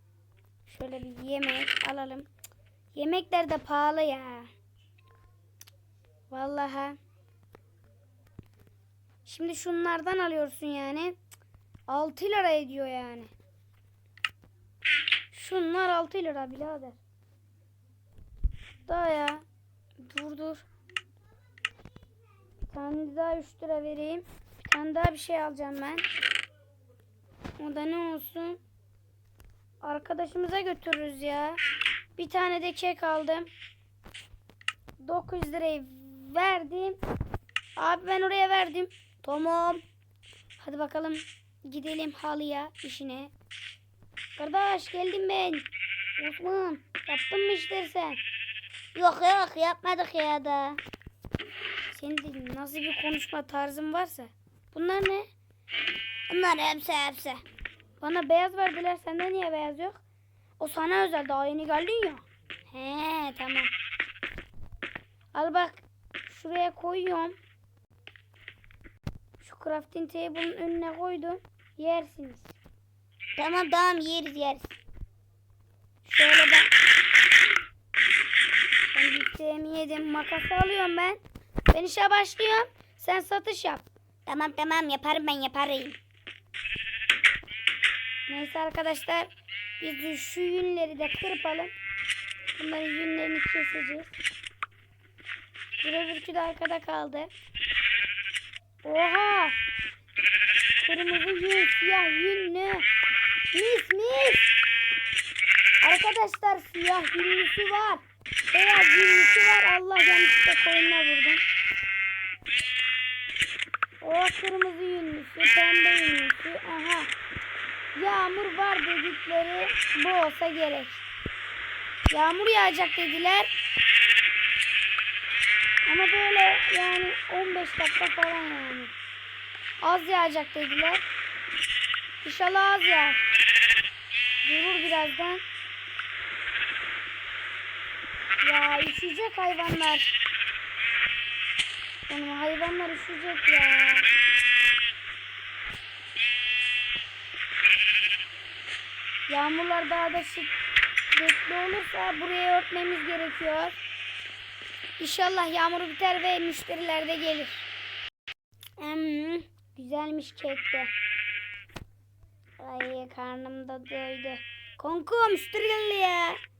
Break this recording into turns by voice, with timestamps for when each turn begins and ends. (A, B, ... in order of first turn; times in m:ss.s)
0:00.7-0:02.3 A
0:02.9-0:04.5 A
0:06.3-0:07.0 A
0:09.2-0:11.2 A
0:11.9-0:13.3 A
0:15.3-0:17.0 A
0:18.9-0:19.4 A
0:20.0-0:20.6 A
0:22.7-0:26.1 A
0:27.6-0:28.6 A
0:29.8-0:31.6 A
0:32.2-0:33.5 A
0:35.0-0:37.0 A
0:37.8-0:39.8 A
0:40.6-0:43.3 A
0:44.4-0:45.7 A
0:46.2-0:48.2 A
0:49.0-0:50.8 A
0:51.9-0:55.3 A
0:56.3-0:57.4 A
0:58.0-1:00.0 A
1:00.6-1:03.7 A
1:05.3-1:07.4 A
1:09.4-1:12.6 A
1:13.4-1:14.7 A
1:16.0-1:16.7 A
1:18.9-1:21.2 A
1:21.7-1:26.0 A
1:28.3-1:31.7 A
1:32.6-1:34.2 A
1:35.8-1:37.3 A
1:38.8-1:39.6 A
1:40.8-1:42.9 A
1:43.5-1:44.5 A
1:45.8-1:51.4 A
1:54.0-1:57.1 A
1:58.0-2:01.1 A
2:02.1-2:03.5 A
2:05.9-2:08.9 A
2:09.8-2:11.0 A
2:12.2-2:13.2 A
2:14.4-2:15.4 A
2:18.4-2:20.1 A
2:22.1-2:24.1 A
2:29.3-2:30.6 A
2:31.2-2:33.8 A
2:35.0-2:37.6 A
2:38.8-2:40.9 A
2:42.6-2:46.4 A